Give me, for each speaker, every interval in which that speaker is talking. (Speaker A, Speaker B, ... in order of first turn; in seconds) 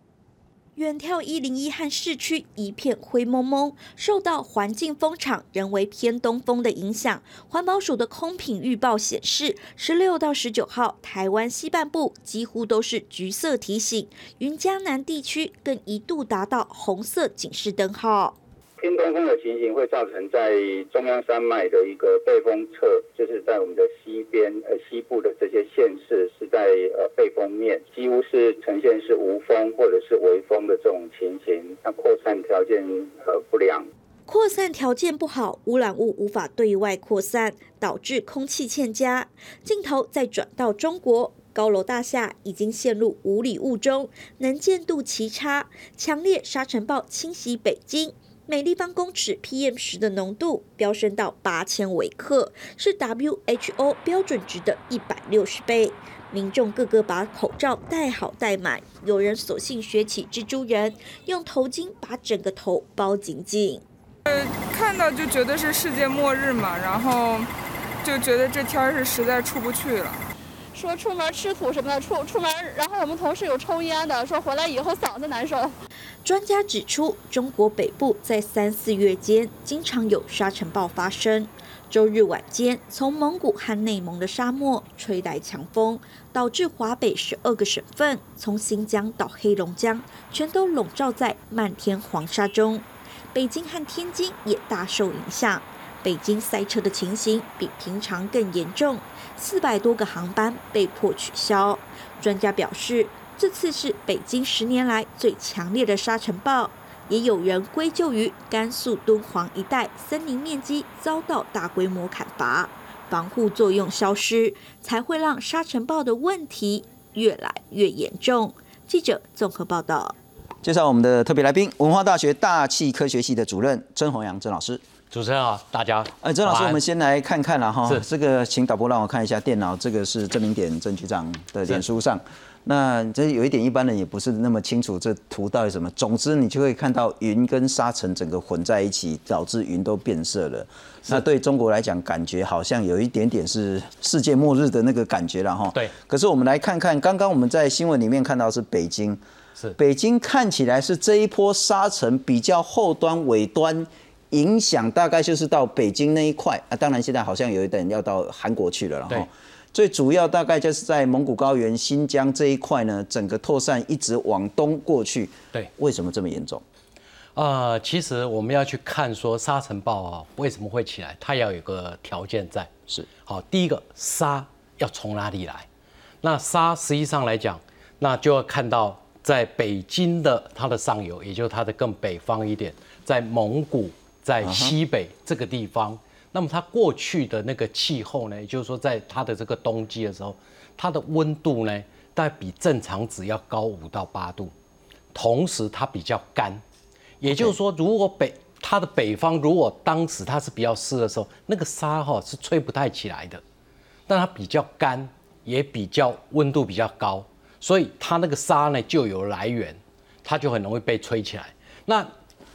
Speaker A: 0.8-18.4, 34.3-63.8, 76.2-120.2
Speaker B: 18.8-33.9
Speaker C: 64.2-67.5, 68.0-70.2
Speaker D: 70.7-75.7
Speaker E: 120.6-124.8, 126.2-149.2, 149.8-166.6, 184.4-184.7, 197.2-197.5
Speaker F: 125.1-126.8, 167.3-175.7, 176.2-194.5, 195.1-196.6, 197.2-203.4, 204.1-212.1